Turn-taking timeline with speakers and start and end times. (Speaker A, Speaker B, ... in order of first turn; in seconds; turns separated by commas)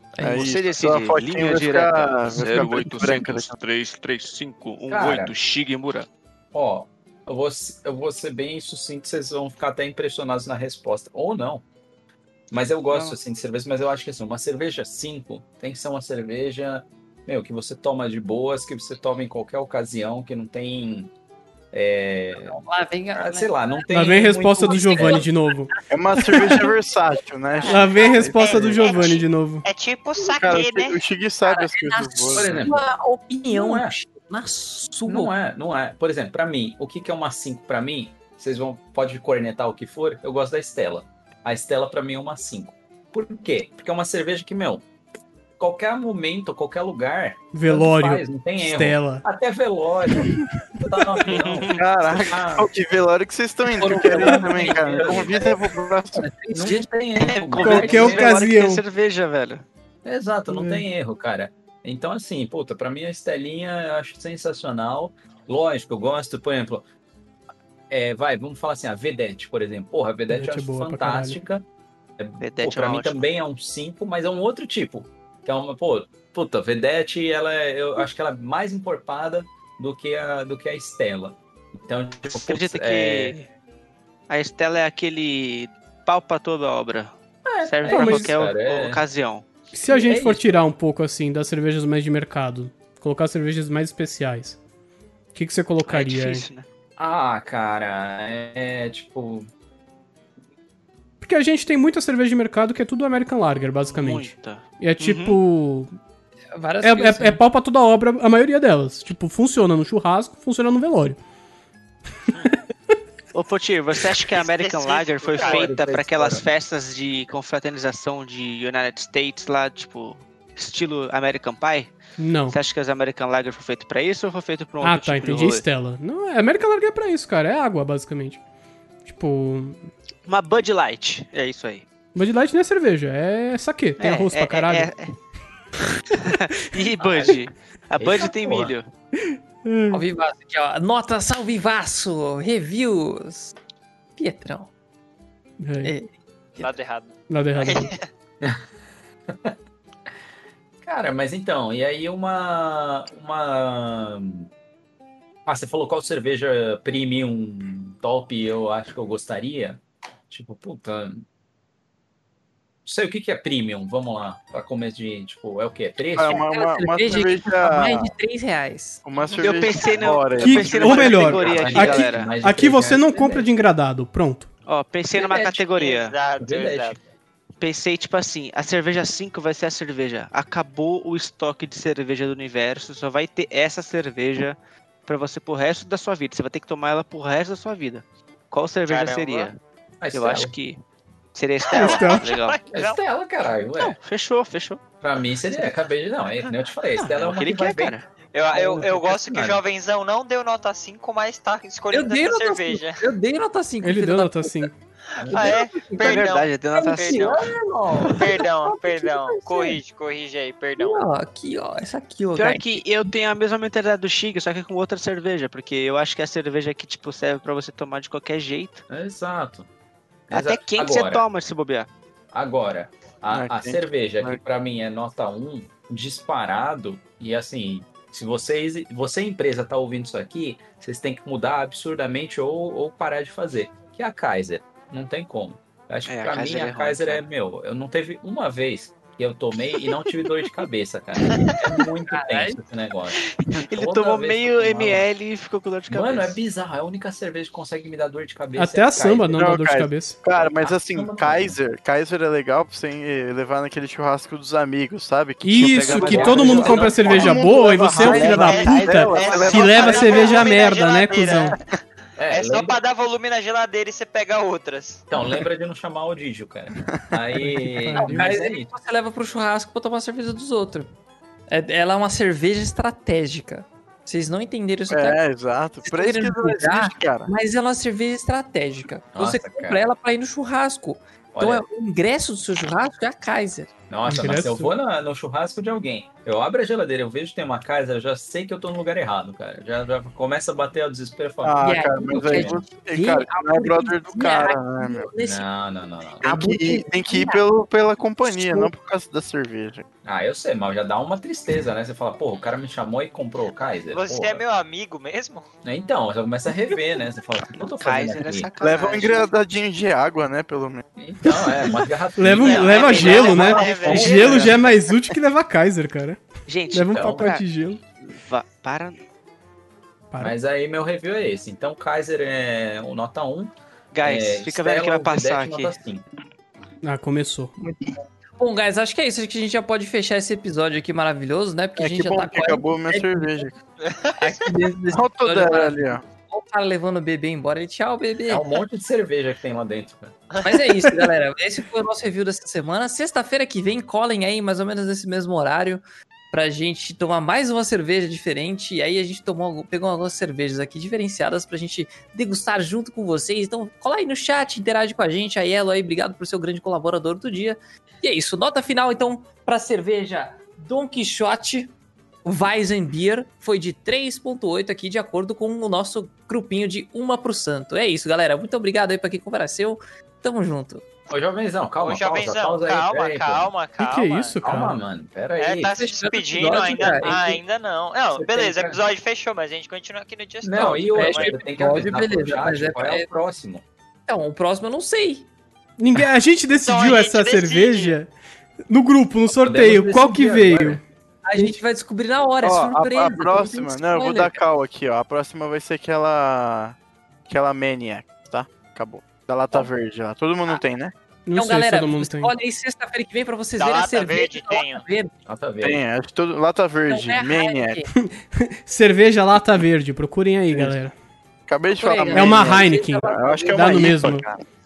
Speaker A: 0.2-6.1, Speaker B: 0.2-3.6, Speaker C: 4.9-5.3, Speaker C: 6.5-11.7, Speaker C: 12.5-21.1, Speaker A: 12.9-13.2, Speaker C: 21.7-22.6, Speaker D: 22.4-23.8, Speaker C: 23.1-25.3, Speaker E: 23.9-25.7, Speaker B: 25.9-29.1, Speaker D: 26.2-26.7, Speaker F: 27.6-31.0, Speaker E: 27.6-29.7, Speaker B: 30.2-32.7, Speaker D: 31.4-35.3, Speaker C: 32.3-32.8, Speaker C: 33.5-33.9, Speaker C: 35.1-44.9, Speaker C: 45.6-52.7, Speaker E: 47.5-49.2, Speaker A: 51.3-51.9, Speaker B: 51.8-56.3, Speaker D: 53.7-55.6, Speaker C: 54.4-55.6, Speaker D: 56.1-56.9, Speaker C: 56.5-58.5, Speaker A: 57.1-59.6, Speaker E: 57.6-58.8, Speaker C: 60.0-66.8, Speaker E: 60.5-60.9, Speaker C: 67.9-71.7, Speaker E: 70.3-71.4, Speaker C: 72.2-83.4, Speaker A: 72.4-73.3, Speaker A: 82.3-83.5, Speaker A: 84.3-89.5, Speaker C: 87.5-89.0, Speaker E: 87.9-88.3, Speaker E: 89.7-94.6, Speaker C: 89.8-90.7, Speaker E: 95.3-96.5, Speaker A: 95.8-96.7, Speaker C: 97.0-99.5, Speaker E: 101.2-105.9, Speaker A: 103.9-105.4, Speaker D: 106.5-107.4, Speaker E: 106.8-111.2, Speaker A: 113.3-122.0, Speaker F: 114.4-115.8, Speaker C: 115.3-116.5, Speaker E: 122.2-122.6, Speaker A: 122.5-125.7, Speaker E: 124.8-128.4, Speaker E: 129.1-129.9, Speaker A: 130.3-131.9, Speaker E: 132.2-134.9, Speaker A: 134.0-135.2, Speaker A: 136.1-138.9, Speaker C: 138.0-138.7, Speaker E: 139.3-140.0, Speaker D: 139.9-143.6, Speaker D: 144.2-144.7, Speaker E: 145.6-145.9, Speaker D: 145.8-146.8, Speaker F: 146.6-148.1, Speaker E: 147.3-147.9, Speaker C: 150.8-154.5, Speaker C: 155.5-161.2, Speaker C: 162.8-166.4, Speaker B: 166.2-168.1, Speaker D: 166.2-169.0, Speaker B: 169.1-170.9, Speaker A: 169.4-172.3, Speaker C: 169.9-170.2, Speaker E: 170.4-174.5, Speaker C: 170.8-173.5, Speaker A: 174.7-176.2, Speaker F: 175.2-177.0, Speaker C: 176.4-177.0, Speaker A: 177.6-189.6, Speaker F: 188.9-189.5, Speaker C: 190.0-190.5, Speaker A: 190.1-190.8, Speaker A: 191.3-192.6, Speaker F: 191.7-193.0, Speaker E: 191.7-192.3, Speaker C: 192.7-194.0, Speaker A: 193.8-194.8, Speaker C: 195.0-197.9, Speaker A: 197.0-198.1, Speaker F: 198.3-203.0, Speaker C: 198.5-199.6, Speaker D: 201.9-204.7, Speaker E: 203.8-204.8, Speaker C: 205.2-205.5, Speaker F: 205.2-207.5, Speaker D: 205.3-209.8, Speaker A: 205.9-207.5, Speaker F: 208.1-211.0, Speaker D: 210.8-212.8, Speaker A: 212.4-218.8, Speaker C: 218.9-219.7, Speaker C: 220.3-221.2, Speaker A: 220.3-221.9, Speaker C: 222.3-245.1, Speaker B: 223.3-224.4, Speaker A: 236.1-237.2, Speaker D: 242.1-242.6, Speaker A: 243.2-246.4, Speaker C: 245.9-249.5, Speaker E: 248.6-250.2, Speaker B: 249.3-260.4, Speaker C: 250.3-251.6, Speaker E: 255.4-261.6, Speaker C: 255.6-260.4, Speaker F: 258.1-261.6, Speaker C: 262.2-262.8, Speaker F: 262.3-265.1, Speaker C: 265.1-268.7, Speaker D: 267.9-270.9, Speaker D: 271.5-275.2, Speaker B: 274.9-277.3, Speaker D: 275.8-283.7, Speaker C: 279.1-279.9, Speaker C: 281.3-281.6, Speaker C: 283.9-292.6, Speaker E: 284.1-284.7, Speaker B: 291.4-295.1, Speaker D: 291.6-295.5, Speaker C: 295.2-296.4, Speaker D: 296.2-297.5, Speaker B: 296.2-299.9, Speaker D: 298.2-298.7, Speaker C: 300.1-304.4, Speaker F: 303.9-305.5, Speaker C: 305.6-308.5, Speaker A: 307.6-309.3, Speaker B: 308.6-310.8, Speaker C: 311.0-314.9, Speaker E: 312.2-317.8, Speaker F: 312.4-314.6, Speaker B: 313.3-314.4, Speaker A: 316.5-317.5, Speaker C: 316.8-317.3, Speaker A: 318.0-319.0, Speaker C: 320.2-326.1, Speaker A: 323.9-325.7, Speaker E: 326.8-327.5, Speaker D: 327.6-333.4, Speaker B: 331.8-333.6, Speaker F: 333.8-334.4, Speaker D: 334.2-338.4, Speaker B: 334.9-336.0, Speaker C: 338.3-340.1, Speaker F: 340.3-340.6, Speaker D: 340.4-361.7, Speaker D: 362.2-370.8, Speaker C: 371.1-373.6, Speaker F: 371.8-374.4, Speaker E: 373.8-374.8, Speaker C: 374.4-375.8, Speaker F: 375.4-381.4, Speaker D: 375.8-377.4, Speaker C: 378.2-378.8, Speaker C: 380.4-383.6, Speaker D: 380.9-383.1, Speaker D: 384.1-385.3, Speaker E: 385.8-388.1, Speaker F: 386.5-388.0, Speaker E: 388.7-390.8, Speaker C: 389.4-390.8, Speaker D: 391.2-394.4, Speaker B: 392.4-396.8, Speaker B: 397.3-400.9, Speaker E: 401.3-402.3, Speaker D: 401.4-405.1, Speaker F: 403.6-404.9, Speaker C: 405.3-405.8, Speaker B: 405.6-407.8, Speaker D: 406.9-407.9, Speaker E: 408.0-410.9, Speaker B: 411.5-414.4, Speaker D: 411.8-414.0, Speaker E: 412.1-414.2